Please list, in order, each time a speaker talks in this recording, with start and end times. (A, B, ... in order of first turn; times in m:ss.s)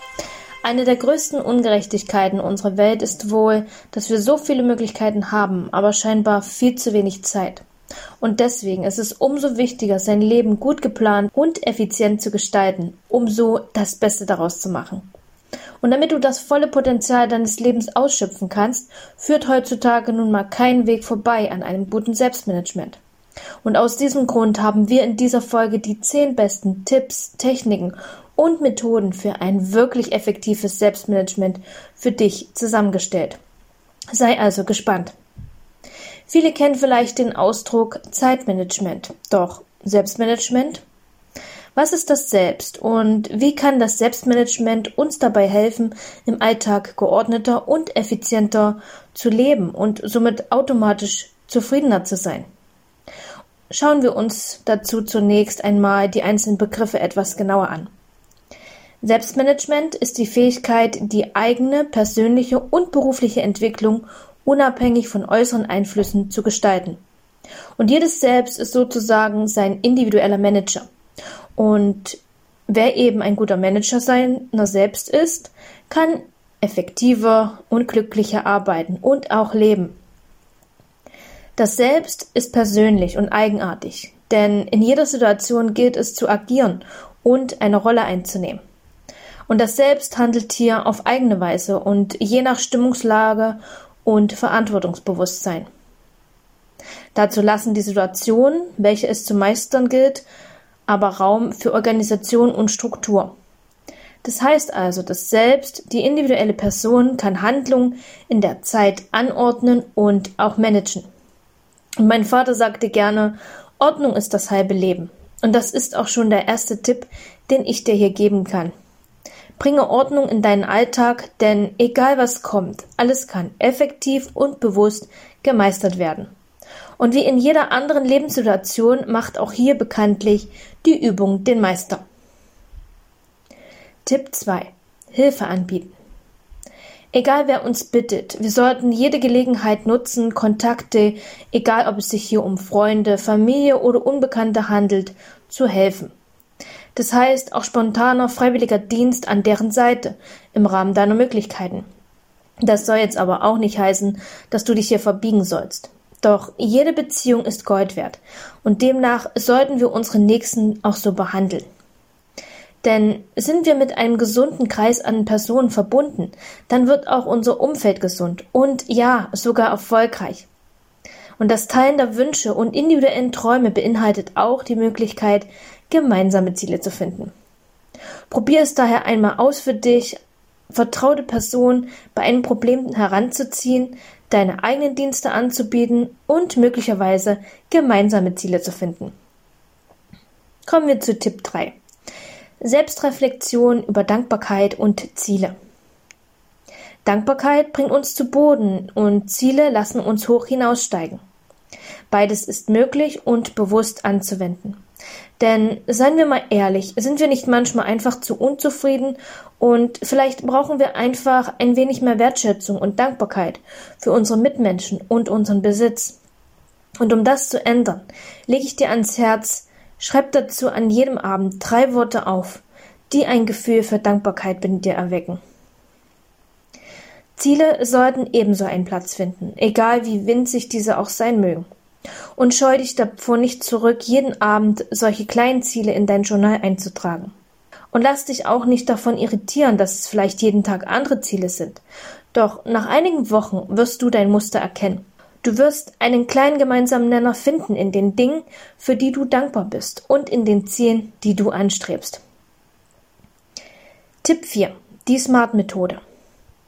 0:00.6-0:07.6 A
0:08.2-0:15.1 A
0:15.8-0:23.0 A
0:23.6-0:33.4 A
0:34.1-0:35.1 A
0:36.3-0:40.8 A
0:41.8-0:52.4 A
0:53.7-0:57.9 A
0:59.0-1:07.0 A
1:07.8-1:10.9 A
1:11.6-1:20.0 A
1:21.6-1:28.6 A
1:29.5-1:35.7 A
1:37.2-1:40.2 A
1:40.9-1:43.3 A
1:44.2-1:51.1 A
1:52.0-1:58.7 A
1:59.6-2:06.3 A
2:07.0-2:12.0 A
2:14.0-2:15.9 A
2:17.1-2:26.1 A
2:27.0-2:31.9 A
2:32.6-2:41.7 A
2:42.8-2:50.5 A
2:51.4-2:57.3 A
2:58.3-3:00.2 A
3:00.7-3:09.1 A
3:10.7-3:11.8 A
3:12.6-3:15.5 A
3:17.0-3:21.2 A
3:22.1-3:24.8 A
3:25.4-3:36.2 A
3:37.0-3:45.4 A
3:47.4-3:51.7 A
3:52.4-3:57.3 A
3:57.9-4:01.8 A
4:02.3-4:12.2 A
4:14.2-4:16.0 A